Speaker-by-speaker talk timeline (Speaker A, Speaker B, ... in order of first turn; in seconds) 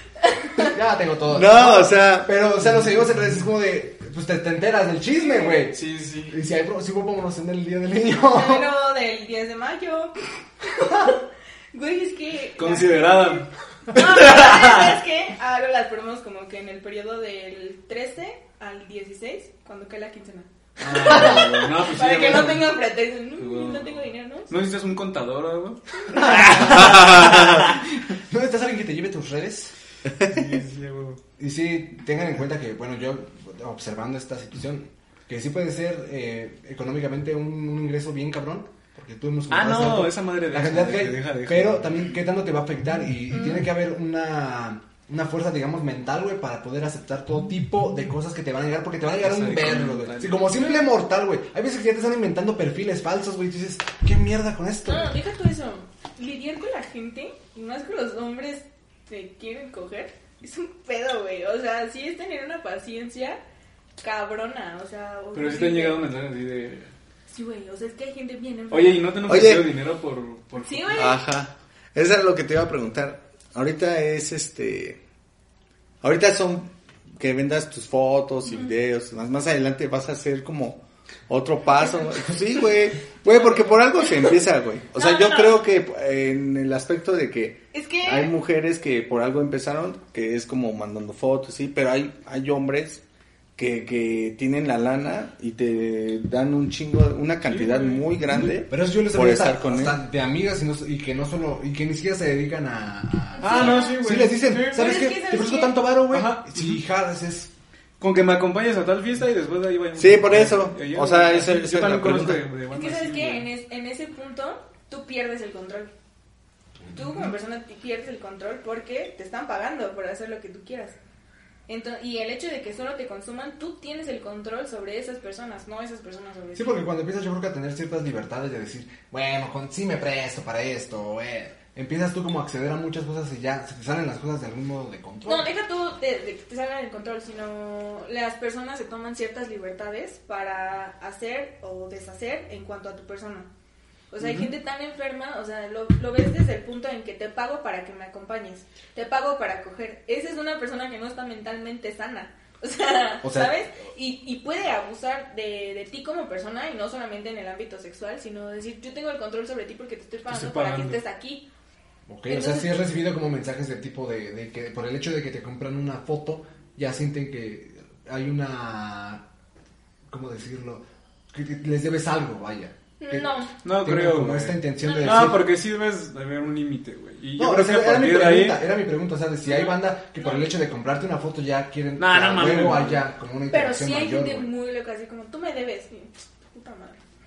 Speaker A: 0.2-0.7, 5.1-5.7, 8.3-24.5, 43.3-43.6, 54.9-63.4, 64.0-66.0, 67.3-69.2, 70.6-71.2, 83.3-84.4, 85.0-85.6, 87.7-88.3, 103.3-104.0, 104.6-105.8, 112.7-115.9, 116.9-121.0, 121.7-126.8, 135.2-143.5, 144.1-161.5, 162.3-162.8, 173.0-173.5, 174.8-175.3, 179.5-180.5, 183.5-187.0
Speaker B: 0.7-8.7, 20.9-21.4, 26.2-29.7, 31.4-55.1, 98.6-107.5, 126.5-135.5, 153.2-153.5, 162.1-169.2, 170.1-175.4, 177.4-184.5
Speaker C: 1.3-2.3, 26.7-27.6, 69.2-69.7, 71.0-75.0, 76.0-93.0, 93.5-100.0, 110.0-112.4
Speaker D: 5.7-6.4, 12.6-14.9, 20.8-22.8, 23.4-27.5, 30.2-31.2, 39.5-42.1, 49.2-50.7, 65.3-66.9, 68.7-71.2, 97.4-98.5, 103.4-105.0, 106.1-106.8, 108.0-113.5, 144.2-144.5, 160.3-161.0, 173.6-178.6, 182.0-183.0